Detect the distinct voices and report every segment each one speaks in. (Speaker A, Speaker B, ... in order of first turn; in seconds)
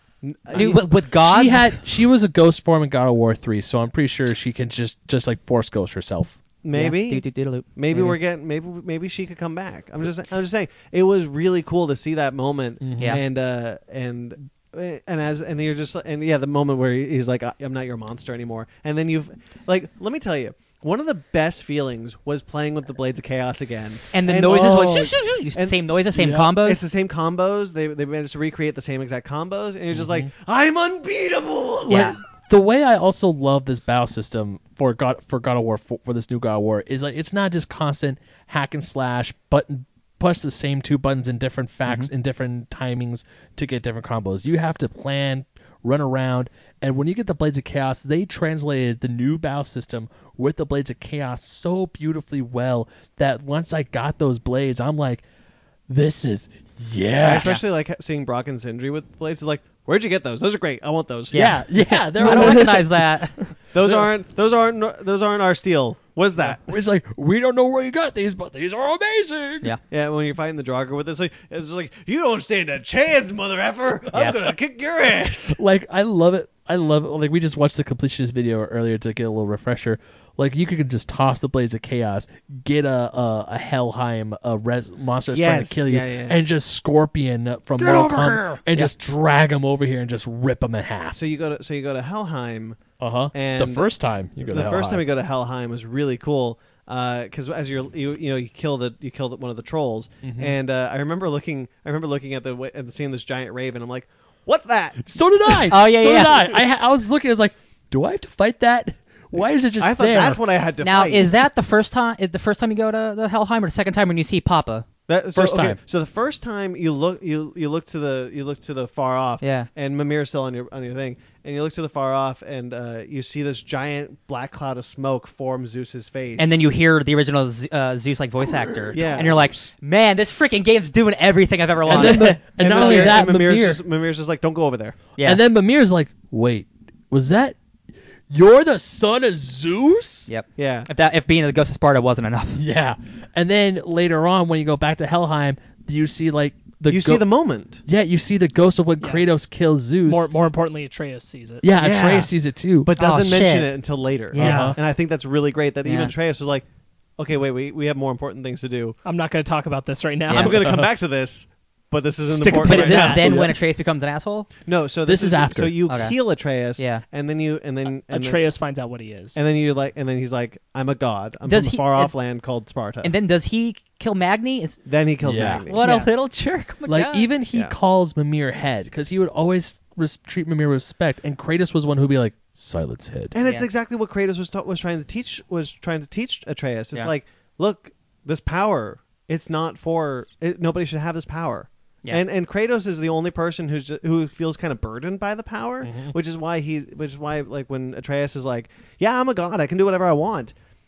Speaker A: 0.2-0.8, 6.6-25.8, 26.6-32.1, 57.2-61.5, 63.7-66.7, 69.9-75.6, 85.3-86.4, 87.8-88.9, 91.1-92.8, 93.3-93.9, 94.4-105.7, 109.8-111.3, 115.1-126.6, 128.9-129.5, 131.9-135.0, 140.6-140.9, 146.9-147.8, 151.8-152.3, 152.8-156.6, 157.2-159.0, 160.3-163.6, 164.6-168.4, 169.3-173.1, 174.8-176.0, 183.3-200.5
Speaker B: 0.5-1.8, 6.7-8.2, 24.1-26.8, 31.9-32.2, 57.4-57.6, 61.3-63.5, 105.7-106.5, 110.8-114.8, 119.4-119.7, 126.4-133.2, 140.3-142.6, 153.0-153.7, 154.3-154.8, 155.8-156.1, 160.3-160.6, 162.5-164.5, 165.9-166.2, 166.8-167.0, 171.5-172.1, 173.0-174.8, 175.4-177.3
Speaker C: 1.2-6.3, 12.8-13.2, 26.1-26.6, 29.9-30.3, 31.9-55.2, 55.9-57.6, 61.3-62.9, 63.8-64.1, 66.4-69.7, 75.6-91.2, 93.0-95.0, 100.2-100.5, 105.0-110.4, 115.3-115.8, 128.6-129.2, 131.9-133.8, 135.2-137.6, 138.3-140.3, 142.5-147.2, 147.8-150.3, 151.6-152.9, 154.3-154.8, 165.1-165.8, 175.2-175.6, 176.9-183.3, 195.8-196.1
Speaker D: 62.2-63.0, 149.0-149.2, 150.0-151.7, 159.0-160.8, 162.3-163.4, 168.1-169.4